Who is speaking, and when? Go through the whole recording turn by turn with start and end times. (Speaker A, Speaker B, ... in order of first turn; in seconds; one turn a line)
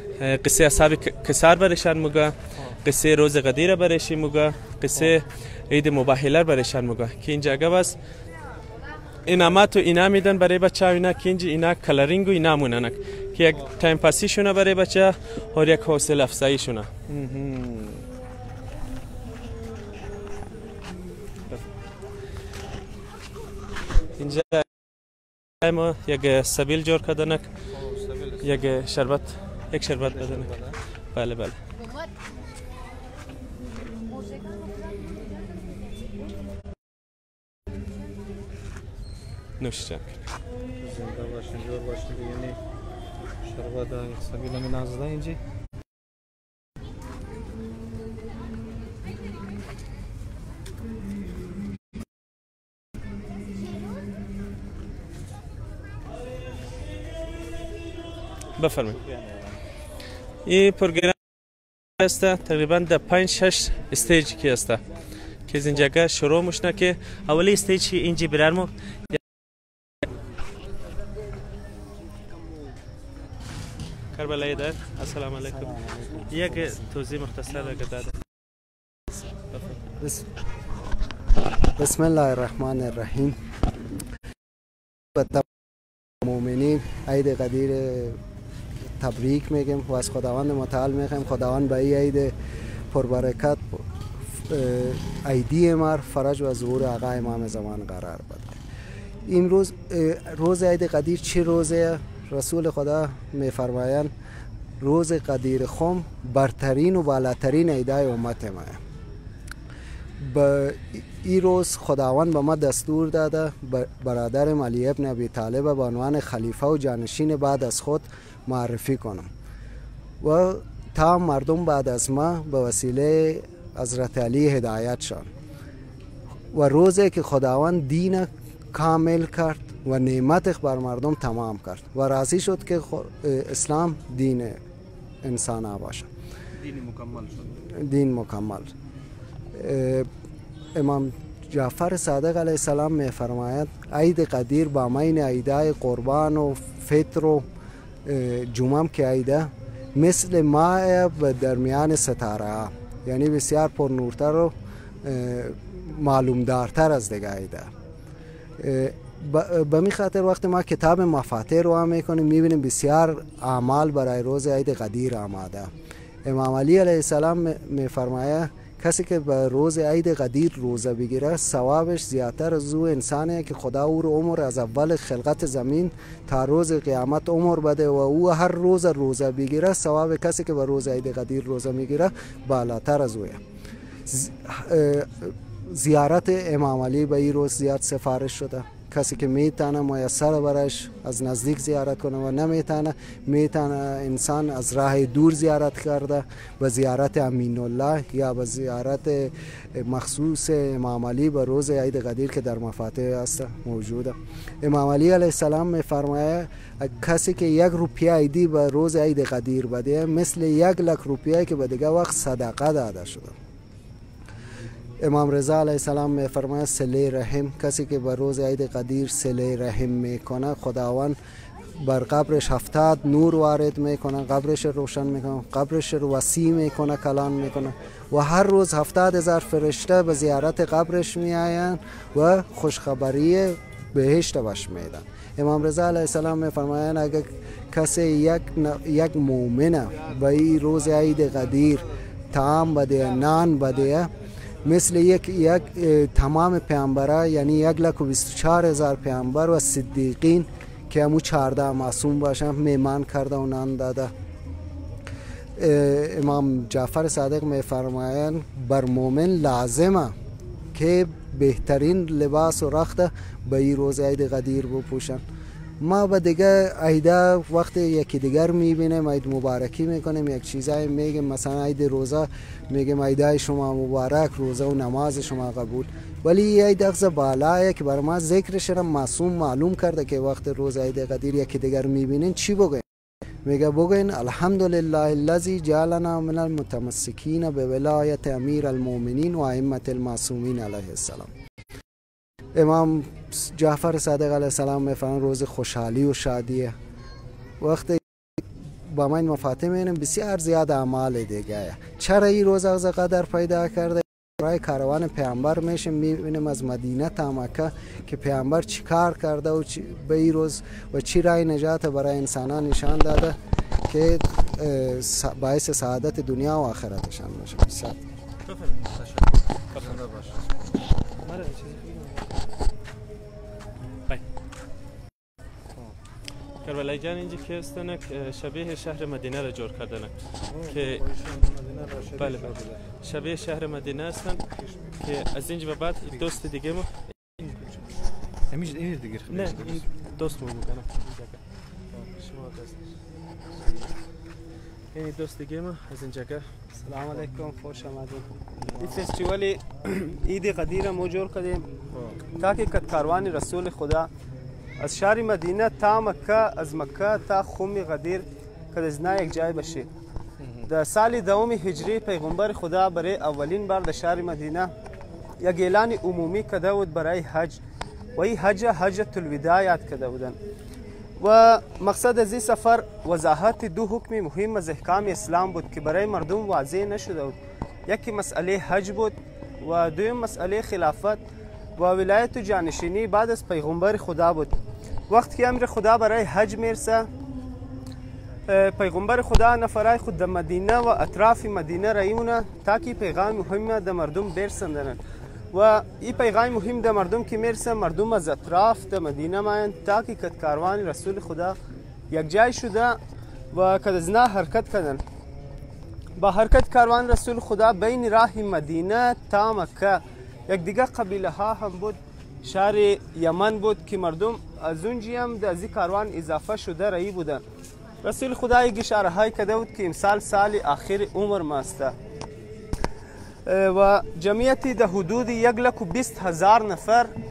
Speaker A: 0.2-8.0
Speaker A: 9.3-16.9
Speaker B: 17.1-18.0
Speaker A: 24.2-24.6
Speaker A: 25.6-27.5
Speaker B: 27.7-28.7
Speaker A: 28.4-31.6
Speaker B: 30.0-30.8
Speaker A: 39.6-40.2
Speaker B: 40.8-42.5
Speaker B: 43.4-45.4
Speaker A: 58.6-59.0
Speaker B: 58.9-59.6
Speaker A: 60.5-61.1
Speaker A: 62.0-64.8
Speaker A: 65.5-68.7
Speaker A: 74.2-78.1
Speaker B: 75.5-76.8
Speaker A: 79.5-79.8
Speaker C: 81.8-83.4
Speaker C: 85.2-85.5
Speaker C: 86.2-88.2
Speaker C: 88.9-92.3
Speaker C: 92.9-98.6
Speaker C: 99.3-104.1
Speaker C: 104.8-108.8
Speaker C: 110.2-119.3
Speaker C: 120.2-125.3
Speaker C: 126.5-134.6
Speaker C: 135.2-136.1
Speaker B: 136.6-137.5
Speaker C: 137.8-138.7
Speaker C: 139.5-140.1
Speaker C: 140.8-147.5
Speaker C: 148.1-157.7
Speaker C: 158.6-165.7
Speaker C: 166.2-183.4
Speaker C: 184.1-213.4
Speaker C: 215.0-221.2
Speaker C: 221.8-244.1
Speaker C: 244.6-254.1
Speaker C: 255.6-260.1
Speaker C: 260.7-265.2
Speaker C: 265.8-282.9
Speaker C: 283.4-291.3
Speaker C: 292.6-296.8
Speaker C: 297.6-298.0
Speaker C: 298.9-313.4
Speaker C: 313.9-318.0
Speaker A: 318.5-318.7
Speaker B: 318.8-320.4
Speaker A: 319.7-320.0
Speaker A: 321.3-321.9
Speaker A: 326.6-331.0
Speaker B: 330.5-332.8
Speaker A: 332.2-337.5
Speaker B: 336.0-336.5
Speaker B: 337.4-337.9
Speaker B: 338.5-339.9
Speaker A: 339.3-341.4
Speaker A: 342.2-342.8
Speaker A: 344.9-346.5
Speaker D: 346.8-348.3
Speaker D: 348.8-351.6
Speaker D: 352.4-354.1
Speaker D: 354.8-359.9
Speaker B: 360.4-360.7
Speaker D: 360.7-364.7
Speaker D: 365.4-367.6
Speaker D: 368.2-370.4
Speaker D: 371.2-381.2
Speaker D: 381.8-384.6
Speaker D: 385.1-387.1
Speaker D: 388.5-395.0
Speaker D: 395.5-401.6
Speaker D: 402.1-402.9
Speaker D: 403.5-405.0
Speaker D: 406.2-410.0
Speaker D: 410.5-417.4
Speaker D: 418.0-421.9
Speaker D: 423.5-427.1